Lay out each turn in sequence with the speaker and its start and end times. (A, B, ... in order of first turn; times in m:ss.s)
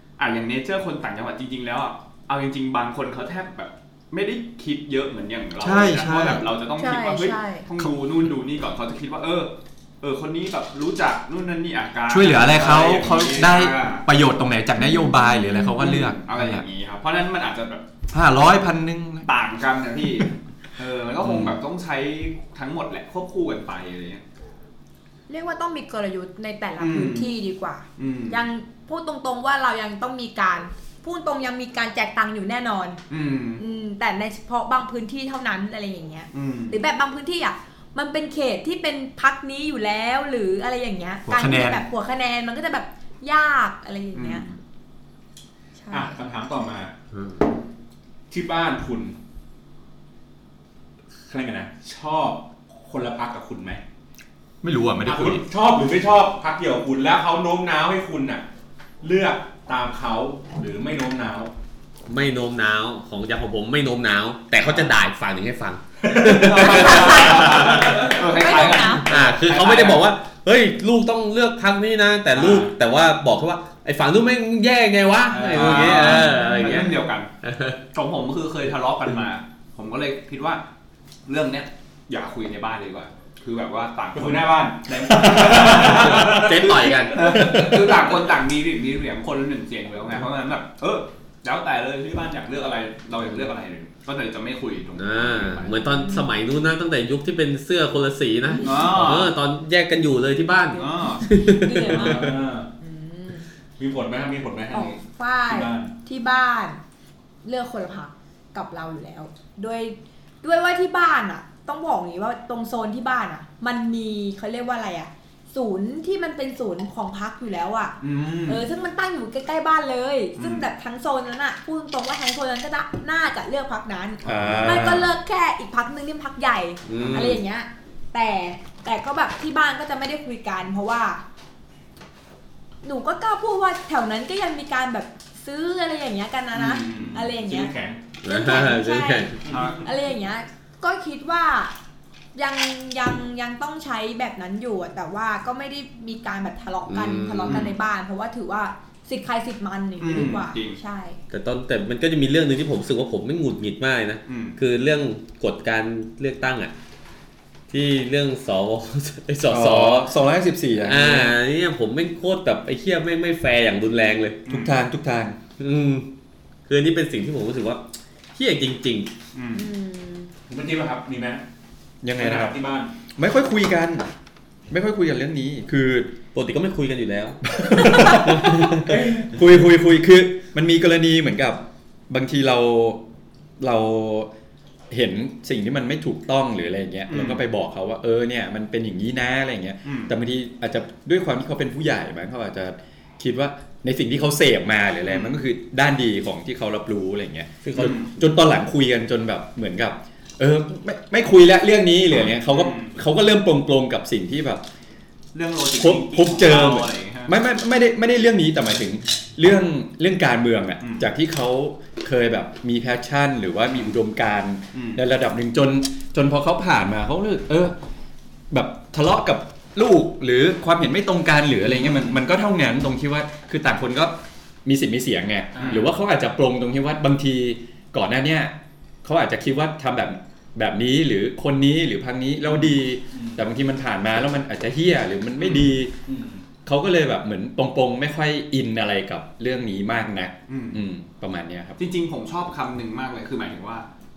0:00.2-0:14.1 A
0:05.6-0:06.5 B
0:06.8-0:07.7 C
0:12.1-0:16.6 B
0:14.8-0:15.9 C
0:15.7-0:17.8 A
0:18.1-0:19.3 B
0:19.3-0:24.2 A
0:21.2-0:21.6 B
0:25.3-0:33.0 C
0:26.8-0:27.3 A
0:28.0-0:28.4 A
0:33.1-0:33.6 A
0:33.6-0:44.4 C
0:36.3-0:36.8 A
0:41.3-0:41.8 B
0:44.1-0:44.6 A
0:45.8-0:46.2 C
0:45.9-0:46.9 D
0:47.1-0:47.4 E
0:48.3-0:49.2 D
0:51.3-0:53.8 D
0:54.6-0:55.4 B
0:55.0-0:58.4 D
0:59.0-1:01.5 D
1:02.1-1:08.1 E
1:06.0-1:07.0 D
1:06.3-1:10.0 A
1:06.7-1:09.1 C
1:07.9-1:08.2 D
1:08.9-1:17.8 E
1:12.4-1:12.7 D
1:15.3-1:17.3 A
1:15.4-1:16.2 D
1:17.9-1:20.6 A
1:21.3-1:35.9 A
1:24.1-1:27.8 D
1:25.7-1:27.7 E
1:27.4-1:27.7 B
1:35.0-1:42.2 E
1:35.9-1:36.3 C
1:38.6-1:39.4 A
1:38.6-1:38.9 C
1:40.8-1:41.2 A
1:41.6-1:43.4 C
1:41.9-1:42.7 D
1:43.8-1:46.0 D
1:44.7-1:46.8 C
1:47.4-2:11.2 C
1:58.0-1:58.7 A
2:00.4-2:00.7 A
2:04.2-2:05.1 E
2:04.3-2:05.0 B
2:06.9-2:07.4 E
2:07.0-2:07.4 A
2:12.8-2:17.7 C
2:16.5-2:17.3 A
2:17.0-2:18.0 D
2:18.2-2:19.4 E
2:18.2-2:21.7 C
2:19.5-2:19.8 D
2:19.5-2:19.9 A
2:22.3-2:31.2 C
2:26.8-2:27.7 E
2:27.5-2:27.7 A
2:30.0-2:30.8 A
2:31.3-2:36.7 E
2:34.3-2:34.6 A
2:37.7-2:40.1 E
2:39.5-2:41.4 B
2:40.8-2:44.4 E
2:44.5-2:44.8 A
2:44.5-2:45.4 B
2:45.6-2:46.1 E
2:46.7-2:49.1 E
2:49.4-2:49.7 A
2:49.6-2:50.3 C
2:50.5-2:51.4 D
2:52.0-2:52.6 B
2:52.2-2:52.9 D
2:53.2-2:54.1 B
2:54.7-2:56.1 B
2:56.3-2:59.0 E
2:57.6-3:03.0 B
2:58.9-2:59.4 D
3:03.6-3:04.3 B
3:04.9-3:24.6 B
3:07.1-3:07.4 A
3:09.8-3:10.1 A
3:15.0-3:15.4 A
3:17.6-3:18.0 E
3:17.8-3:18.1 A
3:22.1-3:23.0 A
3:25.3-3:27.3 A
3:25.8-3:37.8 B
3:33.6-3:33.9 A
3:34.7-3:35.0 A
3:38.5-3:55.9 B
3:41.7-3:42.2 A
3:45.6-3:45.8 D
3:45.6-3:45.9 A
3:52.4-3:53.4 D
3:55.4-3:55.7 A
3:56.1-3:56.4 D
3:56.6-4:01.8 B
4:00.5-4:00.8 A
4:01.8-4:03.9 A